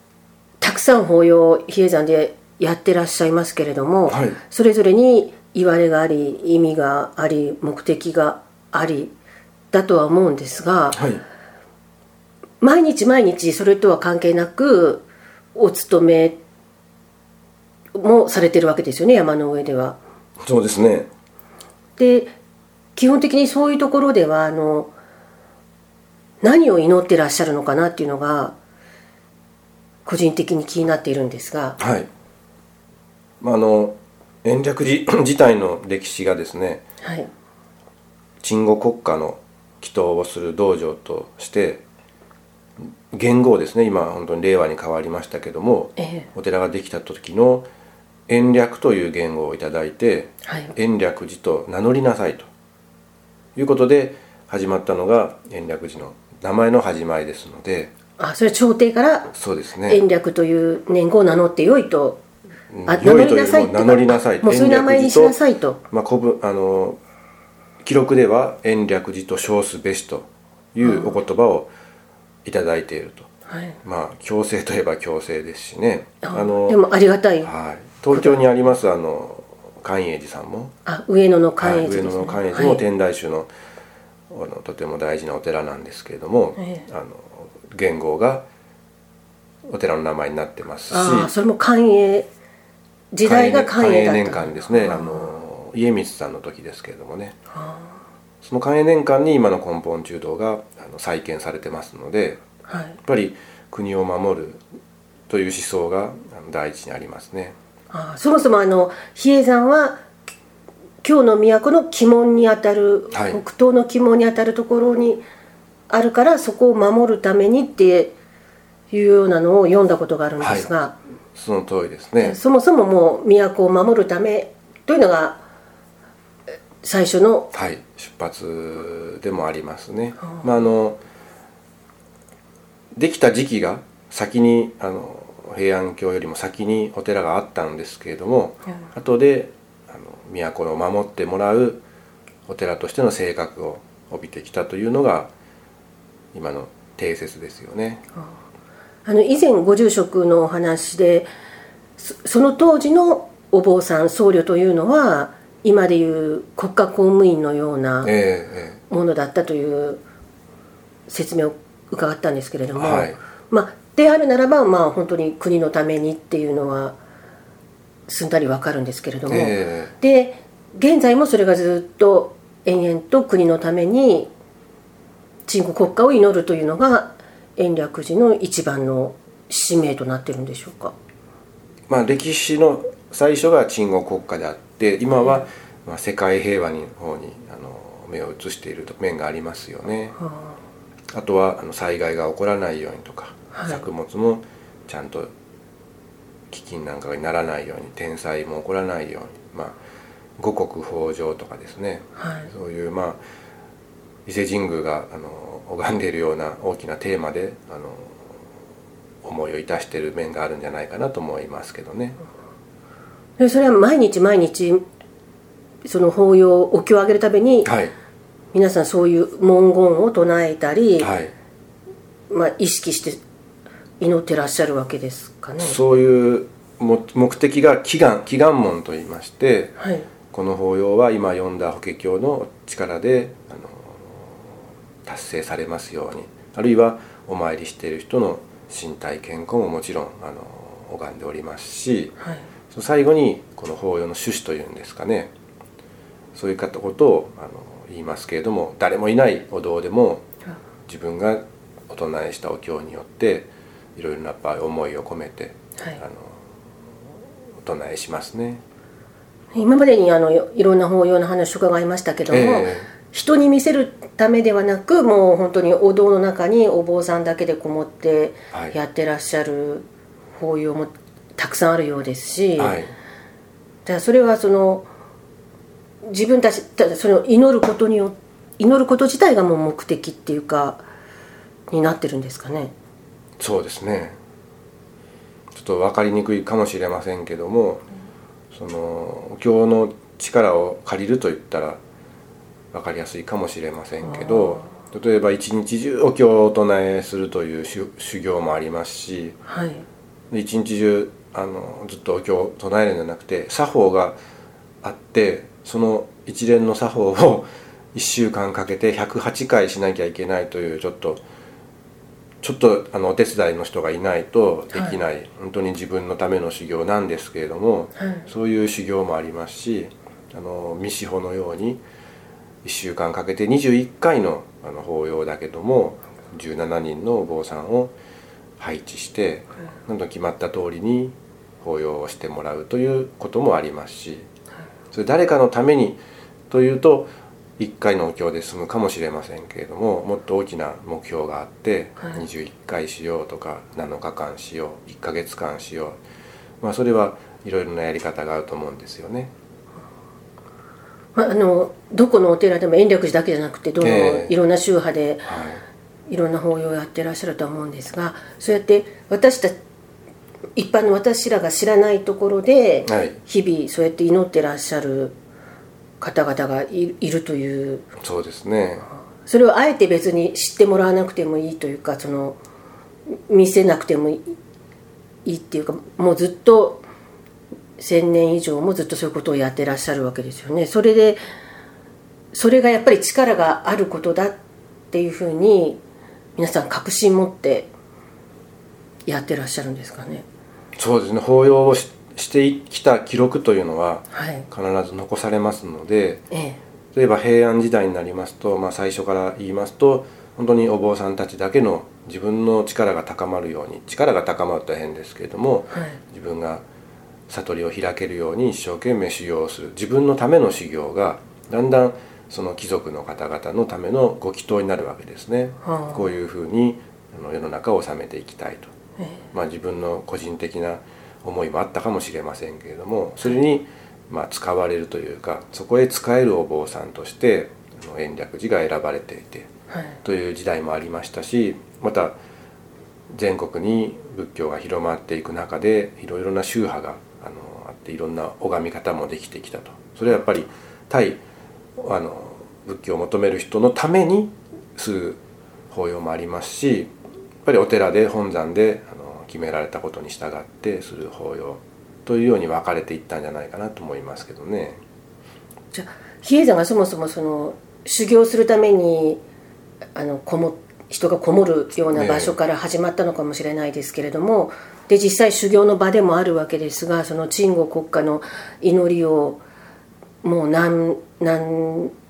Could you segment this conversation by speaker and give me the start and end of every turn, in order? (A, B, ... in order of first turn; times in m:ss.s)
0:00.6-0:09.2 A
0:04.1-0:04.4 B
0:09.7-0:11.0 A
0:10.9-0:11.2 B
0:12.6-0:16.4 A
0:18.0-0:20.0 A
0:20.4-0:21.1 B
0:22.0-0:22.3 A
0:23.0-0:24.9 A
0:26.4-0:28.6 A
0:30.0-0:31.8 A
0:31.8-0:32.1 B
0:33.4-0:36.8 B
0:37.0-0:37.3 A
0:38.4-0:41.8 B
0:43.1-0:47.7 B
0:46.0-0:46.3 A
0:48.3-0:52.5 B
0:50.5-0:50.7 A
0:53.6-0:57.9 B
0:58.2-0:59.3 A
0:59.3-1:00.0 B
0:59.9-1:02.2 A
1:02.7-1:05.4 B
1:02.9-1:05.8 A
1:05.9-1:07.0 B
1:07.8-1:11.7 B
1:10.8-1:11.2 A
1:12.4-1:13.3 B
1:13.5-1:13.8 A
1:13.8-1:16.8 B
1:16.2-1:17.5 A
1:17.4-1:20.7 B
1:18.1-1:18.4 A
1:20.9-1:22.8 A
1:21.6-1:23.5 B
1:24.3-1:28.5 B
1:26.6-1:26.9 A
1:29.7-1:31.3 B
1:30.9-1:32.3 A
1:33.1-1:35.3 A
1:33.2-1:37.4 B
1:37.5-1:38.0 A
1:38.4-1:42.4 B
1:42.7-1:43.0 A
1:43.0-1:44.6 B
1:45.3-1:47.6 B
1:47.9-1:50.1 A
1:51.0-1:55.2 A
1:53.1-1:53.4 B
1:55.9-1:58.2 A
1:58.9-2:01.0 A
2:00.4-2:00.7 B
2:01.4-2:02.4 B
2:02.2-2:05.4 A
2:06.8-2:07.5 A
2:07.5-2:11.0 B
2:13.0-2:21.8 B
2:22.5-2:25.3 B
2:26.3-2:28.0 B
2:29.0-2:31.3 A
2:32.0-2:38.1 A
2:38.0-2:38.8 B
2:38.9-2:40.0 A
2:41.1-2:47.0 A
2:42.8-2:43.2 B
2:48.1-2:54.3 A
2:49.3-2:49.9 B
2:55.5-3:01.0 A
3:01.9-3:10.2 B
3:10.3-3:10.6 A
3:11.1-3:15.3 B
3:13.5-3:13.8 A
3:16.5-3:19.8 B
3:20.4-3:23.2 B
3:22.2-3:22.5 A
3:24.3-3:28.3 B
3:29.2-3:32.2 B
3:33.4-3:34.8 A
3:35.8-3:37.7 A
3:37.6-3:38.0 B
3:38.5-3:41.1 A
3:41.0-3:41.3 B
3:42.3-3:43.2 A
3:44.0-3:45.8 A
3:45.6-3:49.8 B
3:49.8-3:50.1 A
3:50.3-4:02.2 B
4:02.7-4:05.3 B
4:06.4-4:10.2 B
4:10.9-4:16.5 B
4:17.6-4:18.6 B
4:19.5-4:32.8 A
4:22.3-4:22.9 B
4:32.6-4:32.9 B
4:33.8-4:34.9 A
4:36.0-4:40.8 A
4:41.7-4:42.7 A
4:43.4-4:44.2 B
4:45.5-4:47.8 B
4:48.5-4:51.8 B
4:52.7-4:59.4 B
4:54.2-4:54.7 A
4:59.5-4:59.8 A
5:00.3-5:04.2 B
5:04.8-5:11.2 B
5:12.4-5:21.8 B
5:14.7-5:15.0 A
5:18.0-5:18.3 A
5:22.6-5:27.9 B
5:28.6-5:34.3 B
5:34.9-5:46.0 B
5:46.6-5:49.3 B
5:51.2-5:55.3 A
5:53.8-5:54.3 B
5:55.3-5:55.6 B
5:56.1-5:59.6 A
6:00.6-6:05.2 A
6:02.9-6:03.2 B
6:06.0-6:07.8 A
6:08.0-6:08.9 B
6:09.2-6:12.4 A
6:13.3-6:14.4 A
6:15.2-6:16.9 A
6:17.8-6:21.2 A
6:22.3-6:24.4 A
6:24.9-6:25.8 A
6:26.4-6:27.7 A
6:29.1-6:30.2 A
6:30.8-6:36.3 B
6:34.1-6:34.5 A
6:36.3-6:36.6 A
6:36.9-6:46.6 B
6:45.7-6:46.0 A
6:47.3-6:58.7 B
6:55.6-6:56.0 A
6:59.3-7:09.5 B
7:09.7-7:10.0 A
7:10.0-7:12.2 B
7:13.1-7:21.2 B
7:21.8-7:26.9 B
7:27.4-7:34.8 B
7:35.7-7:39.2 A
7:40.0-7:49.4 A
7:41.9-7:42.4 B
7:50.2-7:51.9 A